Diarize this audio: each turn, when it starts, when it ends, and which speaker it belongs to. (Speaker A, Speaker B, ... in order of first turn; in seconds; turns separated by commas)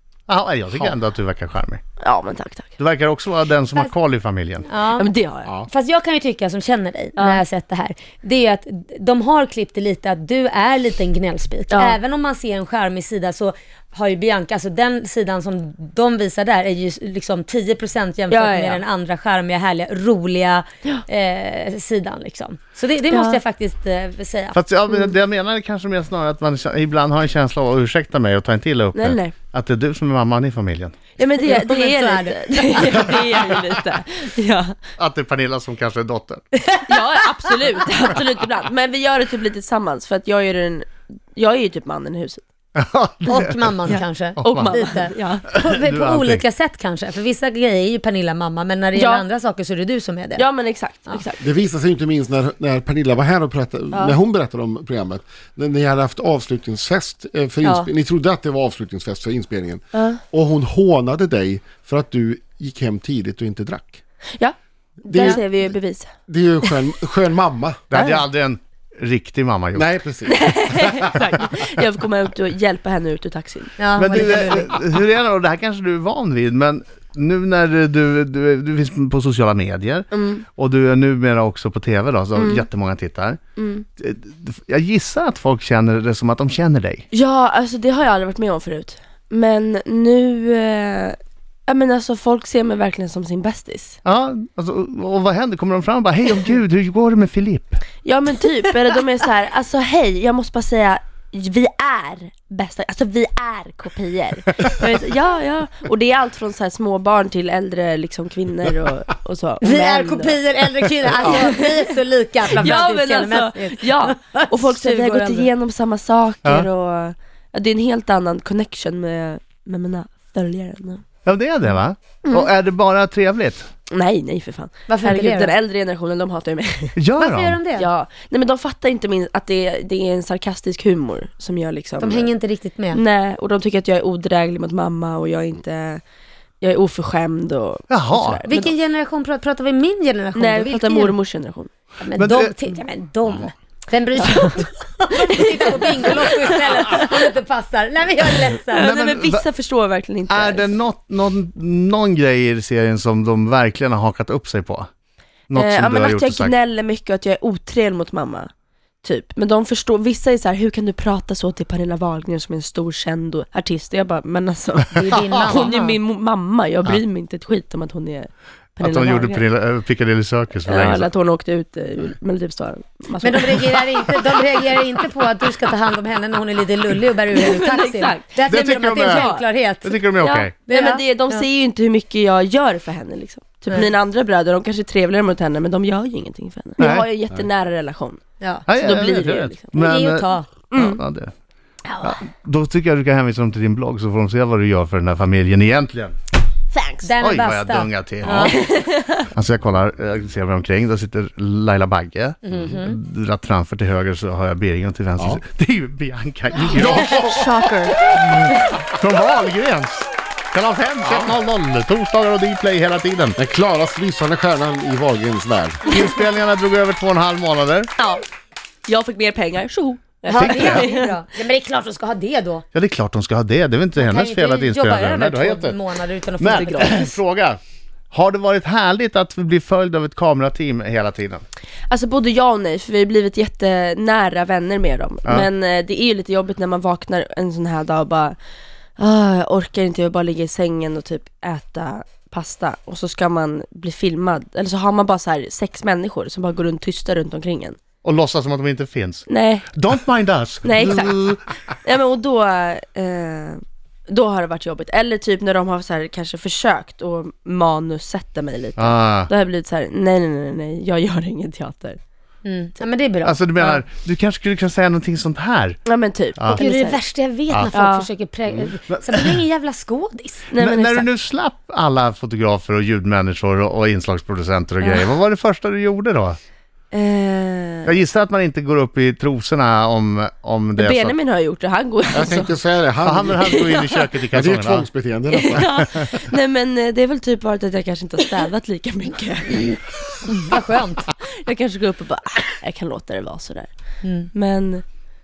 Speaker A: 0.3-1.8, Speaker B: 2.0-2.8, Speaker A: 2.8-4.7, Speaker C: 4.7-5.1, Speaker B: 5.0-5.5, Speaker C: 5.7-24.6, Speaker B: 7.2-7.4, Speaker B: 11.7-12.0, Speaker B: 18.3-18.8, Speaker B: 23.1-23.4, Speaker A: 24.5-31.0, Speaker B: 28.9-29.3, Speaker B: 31.2-34.8, Speaker C: 31.4-33.1, Speaker A: 35.0-36.4, Speaker C: 36.6-37.0, Speaker B: 36.9-42.4, Speaker A: 42.8-43.7, Speaker C: 43.2-50.4, Speaker B: 43.9-45.5, Speaker A: 44.4-44.8, Speaker A: 45.6-46.4, Speaker B: 48.9-49.2, Speaker B: 50.4-51.4, Speaker D: 51.4-64.0, Speaker B: 53.9-54.2, Speaker C: 57.6-57.9, Speaker B: 59.9-60.2, Speaker B: 64.4-66.1, Speaker D: 65.0-65.7, Speaker D: 66.3-67.8, Speaker A: 67.9-69.9, Speaker B: 67.9-68.2, Speaker D: 69.7-71.0, Speaker B: 70.2-74.4, Speaker C: 73.8-74.7, Speaker A: 74.0-83.4, Speaker B: 80.1-80.4, Speaker B: 82.3-82.7, Speaker B: 83.6-83.8, Speaker A: 84.0-87.0, Speaker B: 87.1-94.0, Speaker A: 94.0-97.8, Speaker B: 98.0-111.9, Speaker C: 109.6-115.5, Speaker B: 112.5-121.0, Speaker A: 121.2-123.7, Speaker B: 123.9-127.0, Speaker C: 124.9-125.5, Speaker A: 127.0-127.6, Speaker C: 127.2-127.9, Speaker B: 127.8-132.3, Speaker C: 132.0-133.0, Speaker B: 132.9-136.0, Speaker B: 136.6-138.7, Speaker A: 137.9-138.5, Speaker C: 138.4-141.2, Speaker B: 140.3-141.7, Speaker C: 142.0-148.9, Speaker A: 142.2-142.5, Speaker B: 144.2-144.7, Speaker B: 145.3-147.2, Speaker B: 148.7-150.7, Speaker A: 148.7-149.4, Speaker A: 150.3-154.9, Speaker A: 155.5-156.5, Speaker B: 155.5-158.5, Speaker B: 159.0-169.4, Speaker C: 164.9-165.9, Speaker A: 165.3-165.7, Speaker A: 168.8-171.1, Speaker B: 170.7-174.2, Speaker C: 173.2-180.1, Speaker B: 177.3-178.3, Speaker A: 178.4-179.3, Speaker B: 178.9-179.4, Speaker A: 179.8-180.5, Speaker B: 180.2-189.7, Speaker C: 180.7-181.4, Speaker A: 186.8-187.1, Speaker C: 188.4-188.7, Speaker A: 188.7-191.3, Speaker C: 189.7-190.5, Speaker B: 190.7-191.0, Speaker B: 191.8-192.2, Speaker A: 192.0-196.1, Speaker B: 196.7-197.1, Speaker C: 197.0-198.6, Speaker A: 197.2-198.7, Speaker B: 198.3-199.2, Speaker A: 199.3-213.4, Speaker C: 202.4-202.9, Speaker D: 205.2-205.4, Speaker B: 207.5-207.7, Speaker D: 213.4-215.9, Speaker A: 215.8-217.9, Speaker B: 218.0-218.2, Speaker B: 218.9-221.1, Speaker C: 220.2-222.6, Speaker A: 220.3-220.9, Speaker A: 222.7-225.8, Speaker C: 224.0-227.0, Speaker A: 226.4-227.6, Speaker B: 226.5-227.2, Speaker A: 228.1-231.4, Speaker B: 231.9-238.4, Speaker B: 239.0-247.8, Speaker A: 248.0-251.4, Speaker B: 249.3-249.7, Speaker B: 250.6-251.2, Speaker B: 251.8-262.0, Speaker A: 258.8-259.3, Speaker C: 262.4-263.4, Speaker A: 263.2-265.8, Speaker B: 265.9-267.0, Speaker A: 266.4-266.6, Speaker C: 266.5-270.5, Speaker B: 267.7-268.1, Speaker A: 268.5-269.4, Speaker B: 270.5-271.1, Speaker A: 270.6-276.4, Speaker B: 274.8-275.1, Speaker B: 276.9-277.9, Speaker A: 277.9-281.1, Speaker B: 280.8-282.6, Speaker D: 282.1-283.7, Speaker A: 283.0-284.9, Speaker B: 283.4-284.0, Speaker D: 284.3-285.8, Speaker B: 285.3-289.9, Speaker C: 290.3-291.1, Speaker B: 291.2-293.7, Speaker C: 294.0-294.3, Speaker B: 294.3-294.8